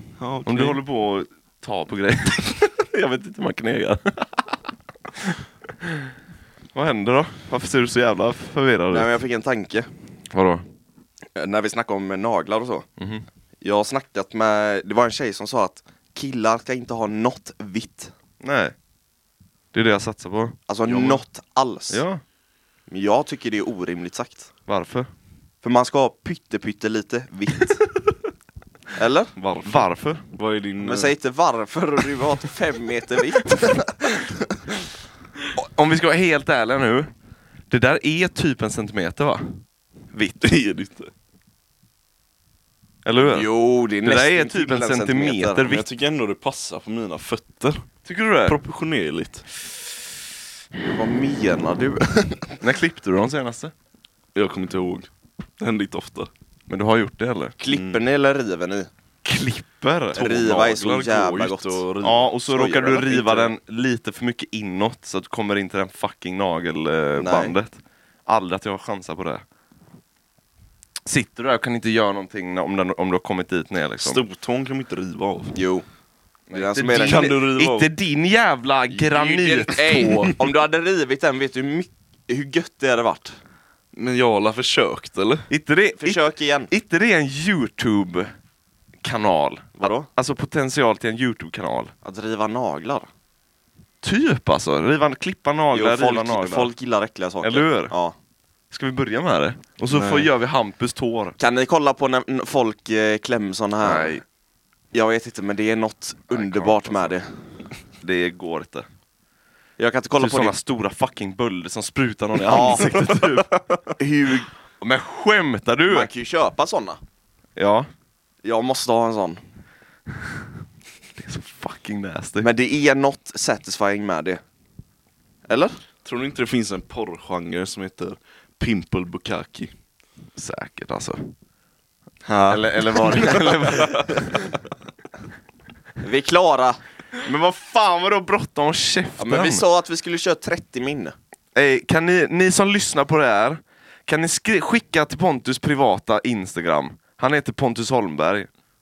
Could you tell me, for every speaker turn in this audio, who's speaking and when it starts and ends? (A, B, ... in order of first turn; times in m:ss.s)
0:00.2-0:00.8 A
0:00.4-0:04.6 B
0:05.1-0:06.1 B
0:06.7-0:09.1 B
0:08.9-0:09.9 C
0:10.3-0:10.6 B
0:11.4-0:12.8 C
0:13.0-0:13.2 B
0:13.6-0:18.1 C
0:18.4-0:18.7 B
0:19.7-0:20.6 B
0:20.7-0:22.0 C
0:20.8-0:21.2 A
0:21.9-0:22.2 B
0:22.9-0:24.5 C
0:24.7-0:25.1 B
0:25.6-0:27.9 C
0:29.0-0:29.3 C
0:29.4-0:31.1 A
0:29.4-0:30.2 B
0:30.8-0:34.4 C
0:35.5-0:37.1 B
0:37.7-0:39.6 B
0:40.1-0:40.4 B
0:40.4-0:41.1 A
0:43.0-0:43.5 B
0:43.2-0:45.6 C
0:44.0-0:45.8 B
0:45.6-0:47.8 A
0:48.0-0:48.6 B
0:48.4-0:49.4 A
0:50.9-0:52.6 C
0:52.6-0:53.7 B
0:54.3-0:56.3 A
0:56.7-0:57.6 B
0:57.6-0:58.9 C
0:57.7-0:58.0 A
0:59.2-1:00.3 B
1:00.1-1:02.3 A
1:00.2-1:01.8 C
1:02.0-1:09.4 B
1:02.5-1:03.5 C
1:07.2-1:07.5 C
1:11.0-1:14.2 B
1:14.0-1:15.5 A
1:15.5-1:15.8 C
1:16.5-1:20.3 B
1:16.5-1:17.4 C
1:16.9-1:17.9 A
1:18.9-1:23.4 C
1:19.9-1:20.3 A
1:23.9-1:25.5 A
1:25.5-1:28.3 B
1:26.0-1:26.7 C
1:29.0-1:31.9 B
1:29.8-1:30.1 C
1:32.0-1:33.1 C
1:34.0-1:36.7 B
1:35.7-1:38.1 C
1:37.4-1:37.9 B
1:38.7-1:41.3 B
1:41.4-1:44.2 C
1:43.8-1:44.2 B
1:44.9-1:47.2 C
1:46.3-1:47.2 B
1:48.0-1:48.8 B
1:49.8-1:50.6 C
1:50.2-1:53.5 B
1:52.4-1:53.4 C
1:54.0-1:54.5 C
1:54.8-1:56.1 B
1:55.9-1:57.0 C
1:57.6-1:57.9 B
1:58.4-1:59.4 C
2:01.2-2:02.5 B
2:02.4-2:04.4 C
2:05.5-2:05.8 C
2:06.0-2:09.7 A
2:10.4-2:11.3 B
2:12.3-2:13.5 C
2:12.5-2:14.5 B
2:16.0-2:16.8 C
2:17.2-2:19.6 B
2:19.2-2:21.1 C
2:21.5-2:28.5 B